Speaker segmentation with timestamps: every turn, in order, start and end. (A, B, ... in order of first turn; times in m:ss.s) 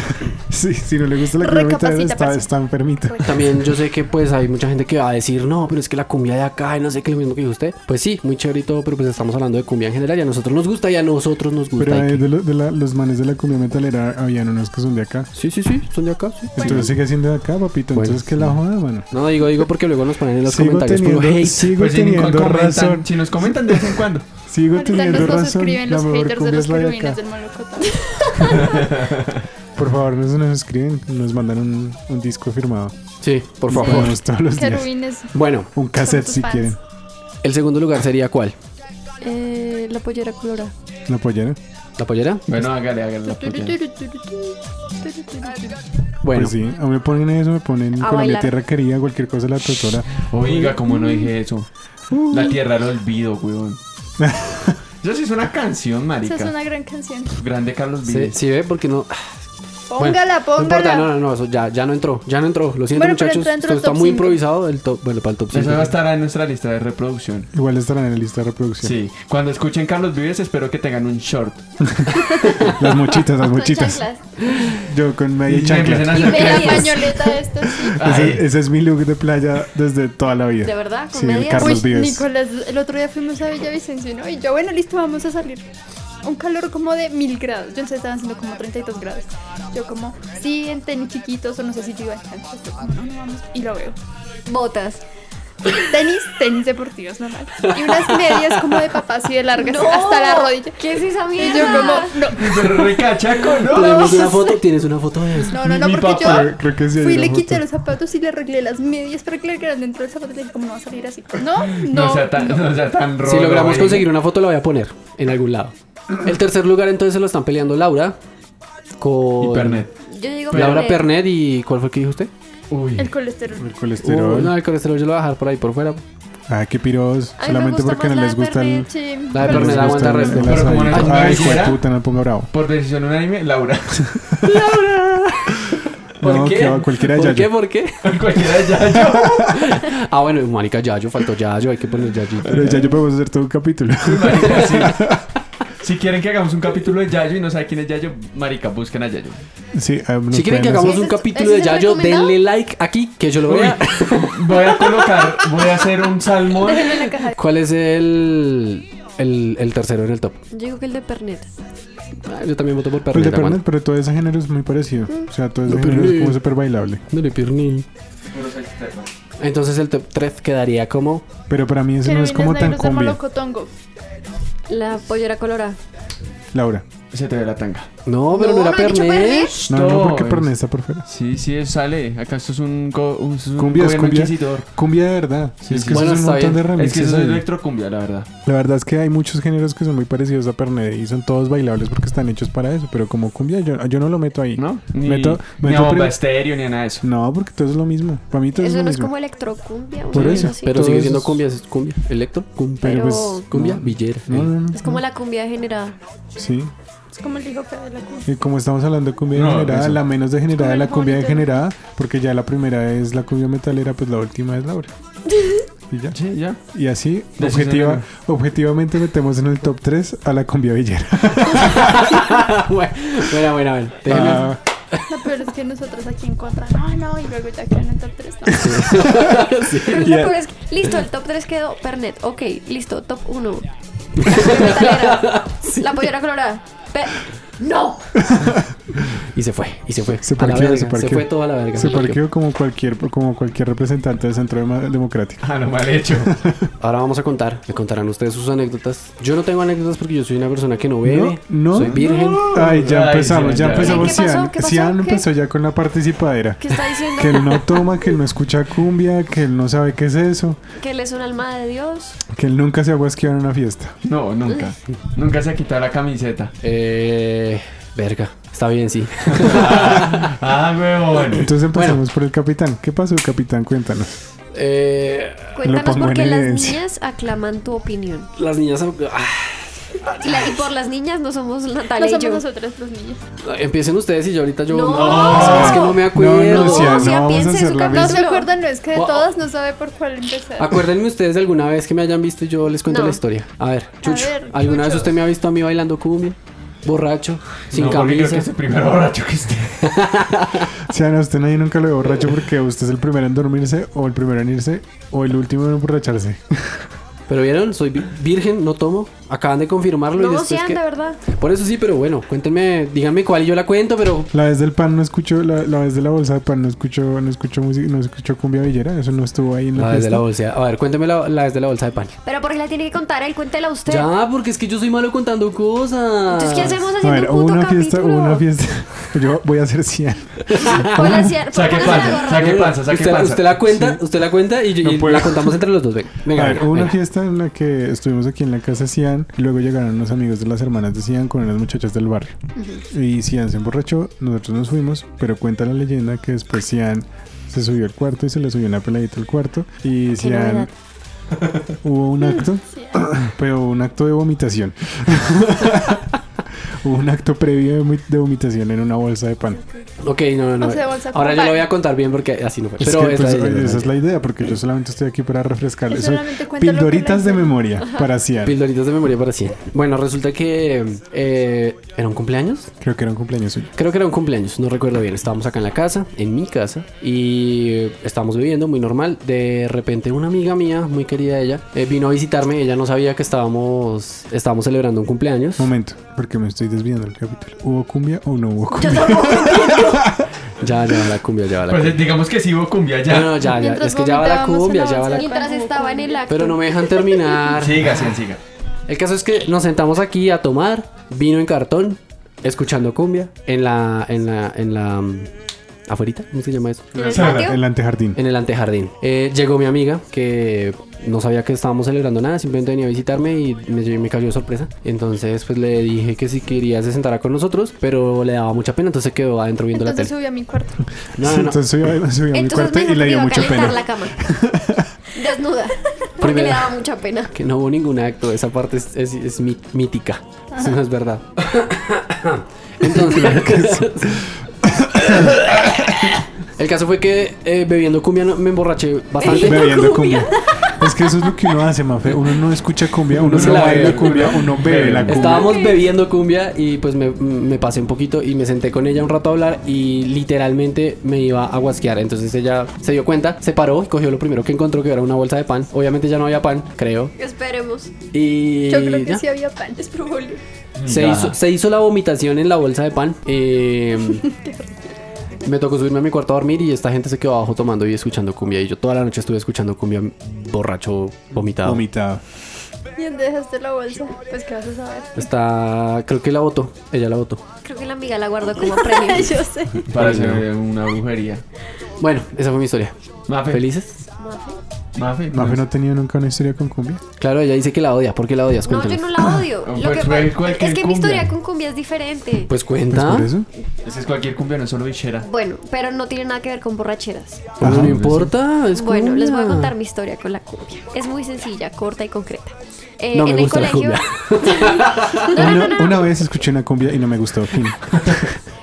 0:00.2-0:03.5 A
0:01.3-0:02.5 B
0:03.1-0:03.4 B
0:03.2-0:12.2 C
0:11.8-0:15.3 A
0:15.3-0:16.9 C
0:16.6-0:19.7 A
0:17.9-0:18.3 C
0:19.1-0:21.7 C
0:20.4-0:27.2 A
0:21.8-0:24.2 D
0:24.7-0:28.8 B
0:28.5-0:29.4 D
0:29.8-0:33.0 A
0:33.2-0:34.2 C
0:33.7-0:34.9 A
0:34.5-0:35.3 B
0:35.3-0:35.7 C
0:35.7-0:36.8 A
0:35.9-0:36.7 B
0:37.4-0:38.5 C
0:39.2-0:40.7 E
0:41.1-0:41.6 A
0:42.0-0:42.5 C
0:42.5-0:43.8 D
0:43.2-0:45.8 B
0:46.2-0:46.5 C
0:46.3-0:50.6 A
0:48.0-0:48.5 E
0:50.3-0:51.7 D
0:52.1-0:52.6 A
0:52.3-0:53.8 D
0:54.2-0:54.8 A
0:55.0-0:56.5 D
0:56.2-0:57.4 B
0:57.4-0:58.4 D
0:58.0-0:59.3 C
0:59.9-1:01.1 B
1:00.0-1:06.0 C
1:02.9-1:04.4 B
1:05.5-1:07.5 D
1:07.5-1:09.0 A
1:08.8-1:11.6 D
1:11.8-1:14.0 A
1:13.3-1:14.2 E
1:14.7-1:16.3 A
1:15.5-1:17.0 D
1:16.1-1:17.1 E
1:16.1-1:18.0 B
1:17.7-1:22.2 A
1:18.0-1:18.4 D
1:20.6-1:21.8 E
1:21.5-1:25.7 B
1:26.2-1:34.0 B
1:34.4-1:35.0 E
1:35.8-1:40.8 B
1:39.5-1:42.2 E
1:41.3-1:43.0 B
1:42.2-1:44.2 D
1:43.7-1:45.5 C
1:45.5-1:52.7 B
1:45.6-1:46.5 D
1:46.1-1:47.6 A
1:51.6-1:54.1 D
1:53.2-1:58.2 C
1:59.0-1:59.8 C
1:59.4-1:59.9 D
2:00.1-2:01.1 E
2:00.5-2:00.9 D
2:00.5-2:02.3 C
2:02.7-2:03.1 D
2:03.0-2:03.7 B
2:03.6-2:04.6 A
2:04.0-2:06.0 C
2:06.5-2:12.5 A
2:07.4-2:08.9 E
2:08.8-2:09.9 B
2:09.3-2:11.6 C
2:09.9-2:11.8 D
2:12.5-2:14.1 D
2:14.1-2:14.6 A
2:14.4-2:18.1 C
2:16.2-2:17.5 A
2:18.0-2:19.6 D
2:19.4-2:22.9 C
2:22.5-2:25.2 A
2:24.0-2:25.1 D
2:25.8-2:29.4 D
2:29.7-2:31.0 A
2:30.3-2:35.1 C
2:30.9-2:32.0 B
2:31.2-2:32.3 E
2:33.4-2:37.1 D
2:36.6-2:37.3 B
2:37.3-2:40.4 C
2:40.5-2:41.5 E
2:42.2-2:43.6 C
2:43.1-2:47.0 A
2:45.7-2:46.4 C
2:47.1-2:47.8 C
2:48.3-2:49.1 D
2:49.4-2:51.3 C
2:51.5-2:53.2 A
2:52.0-2:53.7 B
2:54.7-2:55.8 E
2:56.5-2:56.8 A
2:57.1-2:57.9 D
2:58.0-2:59.6 C
2:58.3-2:59.6 E
2:59.7-3:00.5 D
2:59.7-3:01.0 A
3:01.0-3:04.7 D
3:03.6-3:07.4 A
3:05.6-3:08.3 D
3:05.9-3:06.7 C
3:08.4-3:16.2 A
3:14.6-3:17.0 D
3:17.0-3:19.1 A
3:18.6-3:20.9 E
3:20.1-3:21.4 A
3:20.1-3:20.5 D
3:20.6-3:24.5 C
3:22.8-3:23.5 E
3:22.8-3:25.0 A
3:24.7-3:26.0 E
3:26.4-3:26.7 A
3:27.1-3:28.3 B
3:28.3-3:34.9 A
3:29.3-3:30.0 D
3:30.6-3:31.5 B
3:35.3-3:35.6 E
3:35.9-3:36.2 A
3:36.1-3:36.6 D
3:36.7-3:42.3 A
3:37.4-3:38.0 D
3:41.5-3:45.0 C
3:44.1-3:44.6 A
3:45.1-3:48.9 B
3:48.6-3:50.1 C
3:49.8-3:53.7 E
3:49.9-3:50.4 A
3:54.2-3:55.9 C
3:54.2-3:58.0 E
3:58.2-3:58.7 A
3:59.3-4:02.2 C
4:00.2-4:05.4 A
4:05.4-4:06.3 D
4:06.2-4:06.7 A
4:06.8-4:12.6 C
4:11.0-4:20.6 A
4:11.8-4:14.1 D
4:13.7-4:15.3 E
4:16.6-4:18.0 E
4:20.8-4:22.2 E
4:22.3-4:24.0 A
4:24.0-4:26.5 D
4:26.6-4:30.3 C
4:29.3-4:31.5 D
4:31.3-4:34.2 A
4:31.7-4:32.0 C
4:34.5-4:35.5 C
4:35.5-4:38.3 E
4:35.6-4:36.8 A
4:38.4-4:40.1 C
4:40.2-4:42.4 E
4:41.9-4:43.2 B
4:43.4-4:47.2 C
4:44.7-4:48.5 E
4:44.9-4:45.8 D
4:45.2-4:48.2 A
4:47.9-4:50.8 B
4:48.9-4:49.3 C
4:50.6-4:58.5 C
4:52.8-4:53.2 E
4:54.0-4:55.1 B
4:57.7-4:59.9 D
4:59.8-5:00.7 C
5:00.8-5:06.8 A
5:07.3-5:14.3 C
5:10.1-5:11.2 E
5:14.3-5:20.2 A
5:19.8-5:22.1 C
5:22.2-5:24.1 E
5:23.9-5:26.8 C
5:26.3-5:28.4 E
5:27.0-5:31.3 A
5:30.5-5:30.9 C
5:30.7-5:32.6 E
5:31.0-5:33.7 D
5:31.7-5:37.0 C
5:33.7-5:34.0 A
5:34.8-5:35.6 A
5:36.3-5:42.4 A
5:42.6-5:42.8 E
5:42.9-5:50.7 A
5:50.2-5:50.7 E
5:51.8-5:56.1 A
5:52.7-5:53.0 B
5:56.8-5:59.6 A
6:00.0-6:03.9 C
6:00.6-6:01.7 B
6:02.8-6:08.6 A
6:05.9-6:07.6 B
6:07.8-6:08.0 E
6:08.4-6:12.7 C
6:12.8-6:13.7 A
6:13.8-6:25.7 C
6:25.6-6:30.3 A
6:28.7-6:30.0 E
6:30.6-6:32.0 C
6:31.7-6:33.5 D
6:33.0-6:35.4 C
6:33.4-6:36.5 B
6:35.1-6:37.3 E
6:36.3-6:38.1 C
6:37.5-6:38.4 D
6:38.9-6:45.3 C
6:45.9-6:47.2 C
6:46.9-6:47.6 E
6:47.1-6:47.5 D
6:47.2-6:48.2 A
6:48.1-7:00.1 C
6:59.7-7:00.9 B
7:01.2-7:01.6 C
7:01.2-7:04.9 A
7:02.3-7:04.2 E
7:05.1-7:07.3 E
7:06.2-7:06.8 C
7:07.3-7:14.2 C
7:12.9-7:15.8 A
7:16.6-7:19.9 C
7:19.2-7:20.3 E
7:19.3-7:25.6 A
7:23.2-7:25.4 D
7:23.3-7:24.4 C
7:25.0-7:37.1 C
7:25.4-7:25.8 E
7:37.2-7:37.9 E
7:38.1-7:39.2 C
7:38.6-7:40.4 B
7:40.8-7:41.4 D
7:40.8-7:44.2 C
7:44.1-7:44.9 B
7:45.4-7:51.8 C
7:51.6-7:52.2 A
7:53.0-7:55.2 B
7:55.2-7:57.4 C
7:57.6-7:59.4 E
7:58.6-7:59.9 B
7:59.8-8:01.4 D
7:59.9-8:00.4 C
8:02.0-8:02.9 C
8:03.3-8:03.6 D
8:03.5-8:03.9 C
8:04.2-8:04.6 E
8:05.0-8:05.6 D
8:05.3-8:07.0 A
8:07.2-8:09.2 C
8:08.6-8:12.5 E
8:09.6-8:11.3 D
8:12.5-8:13.3 C
8:12.9-8:13.5 A
8:13.8-8:15.3 D
8:15.2-8:17.5 E
8:17.6-8:19.7 C
8:17.6-8:18.1 A
8:17.6-8:18.3 D
8:18.7-8:26.1 E
8:23.1-8:25.5 C
8:25.3-8:28.3 A